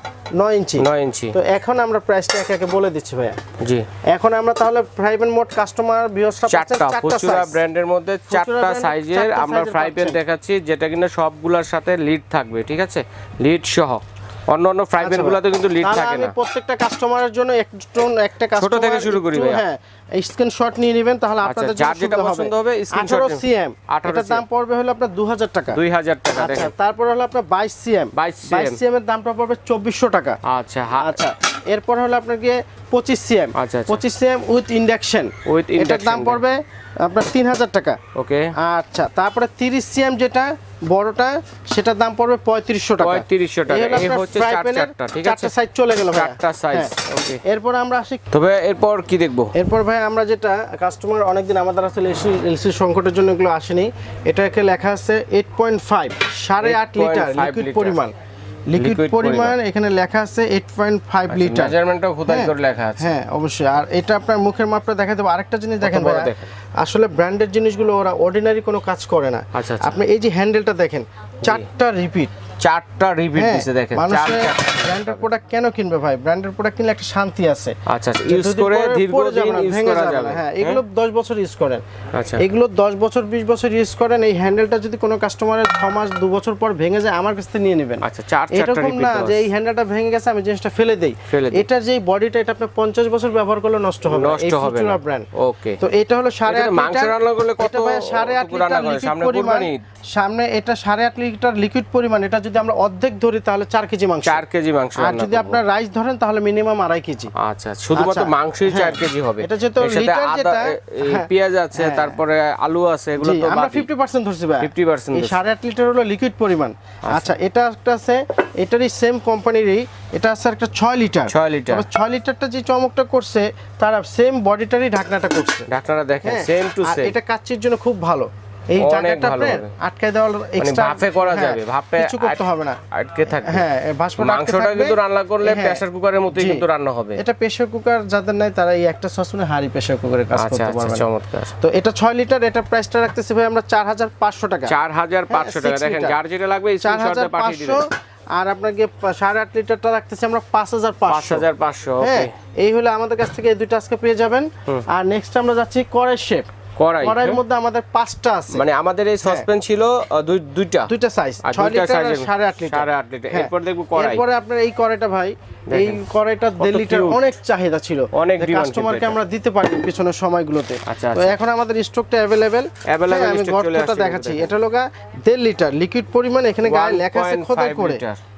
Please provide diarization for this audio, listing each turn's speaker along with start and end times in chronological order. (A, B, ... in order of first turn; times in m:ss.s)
0:00.4-0:03.4 A
0:00.8-0:01.4 B
0:03.6-0:03.9 B
0:04.1-0:07.6 A
0:06.5-0:16.3 B
0:08.3-0:10.2 A
0:15.0-0:25.8 A
0:18.6-0:19.6 B
0:21.4-0:24.4 B
0:25.7-0:26.7 B
0:26.4-0:30.4 A
0:28.1-0:28.8 B
0:30.4-0:31.2 B
0:31.0-0:38.0 A
0:33.6-0:34.0 B
0:35.4-0:36.4 B
0:38.2-0:38.5 B
0:38.6-0:46.9 A
0:43.0-0:45.5 B
0:46.1-0:47.4 B
0:47.4-0:48.2 A
0:48.3-0:49.5 B
0:49.6-0:58.1 A
0:56.6-0:58.0 B
0:58.7-1:01.8 A
0:58.8-0:59.6 B
1:01.3-1:03.1 B
1:02.3-1:12.3 A
1:05.8-1:06.5 B
1:09.5-1:10.0 B
1:12.6-1:15.2 B
1:13.4-1:21.8 A
1:17.9-1:20.8 B
1:22.2-1:22.4 B
1:22.4-1:35.3 A
1:28.0-1:29.4 B
1:31.3-1:31.7 B
1:34.1-1:35.8 B
1:35.8-1:44.4 A
1:36.5-1:39.8 B
1:44.3-1:45.6 B
1:45.0-1:47.3 A
1:47.4-1:53.9 B
1:48.0-1:52.2 A
1:53.2-2:05.7 A
1:54.6-1:55.4 B
1:57.1-1:57.3 B
2:01.3-2:01.9 B
2:05.7-2:07.1 B
2:06.2-2:12.8 A
2:08.8-2:09.7 B
2:10.6-2:13.6 B
2:13.4-2:21.1 A
2:14.2-2:17.2 B
2:20.3-2:21.5 B
2:21.6-2:24.7 A
2:24.7-2:27.8 B
2:25.3-2:26.2 A
2:26.8-2:31.5 A
2:31.1-2:32.3 B
2:32.0-2:36.5 A
2:36.8-2:37.4 B
2:37.0-2:38.6 A
2:38.5-2:40.9 B
2:40.9-2:58.0 A
2:41.4-2:44.2 B
2:45.7-2:46.0 B
2:46.6-2:47.3 B
2:48.1-2:49.2 B
2:50.9-2:51.4 B
2:52.9-2:54.5 B
2:56.6-2:58.2 B